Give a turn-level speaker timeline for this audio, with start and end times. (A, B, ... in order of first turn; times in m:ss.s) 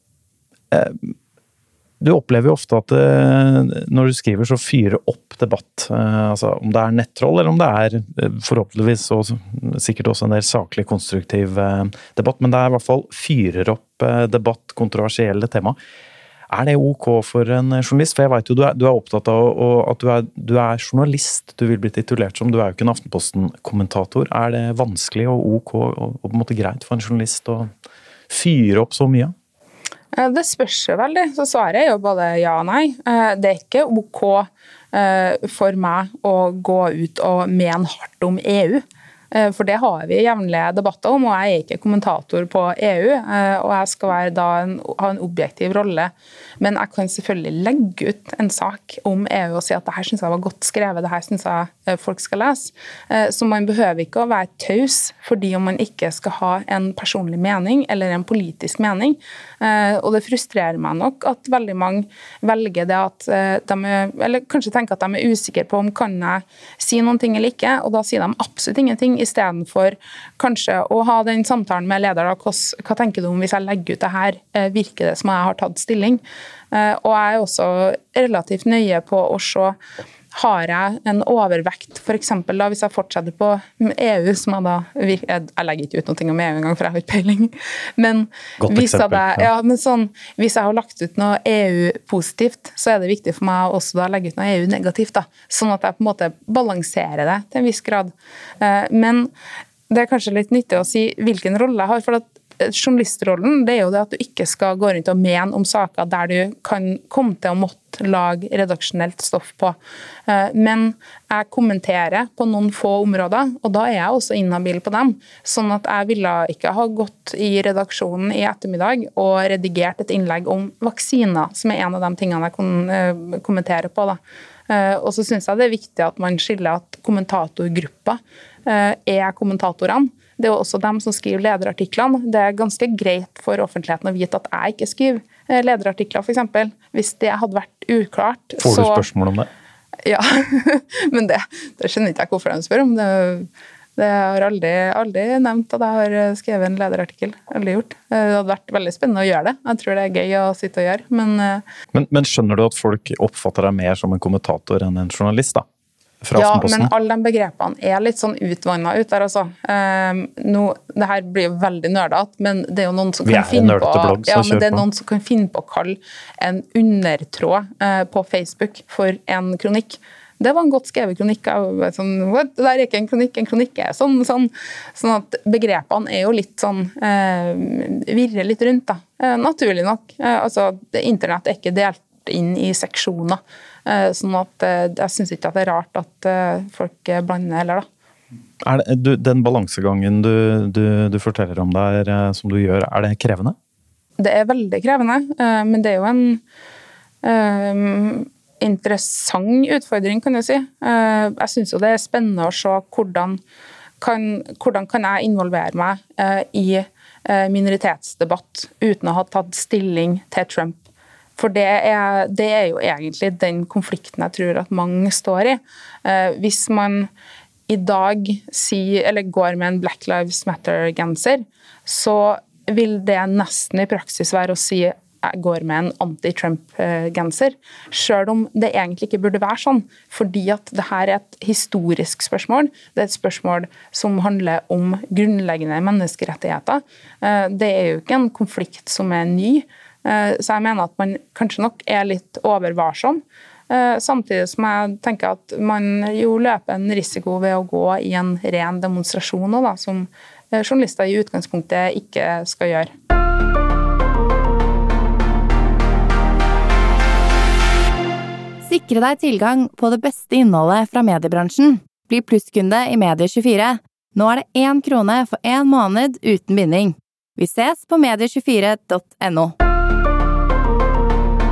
0:00.7-0:01.1 A
0:02.0-0:15.8 A
0:16.5-0:27.7 A
0:28.3-0:29.3 A
0:30.1-1:19.8 B
1:20.3-1:39.3 B
1:28.6-1:29.5 A
1:39.9-1:49.8 B
1:50.3-2:19.0 B
2:18.6-2:19.5 A
2:20.0-2:31.6 B
2:31.9-2:35.6 A
2:36.2-2:36.9 A
2:36.4-3:07.9 B
2:43.2-2:44.8 A
3:08.6-3:13.5 A
3:14.2-3:16.4 B
3:17.2-3:23.4 B
3:24.0-3:30.8 B
3:31.4-3:37.1 B
3:37.7-4:12.9 B
4:18.6-4:29.5 C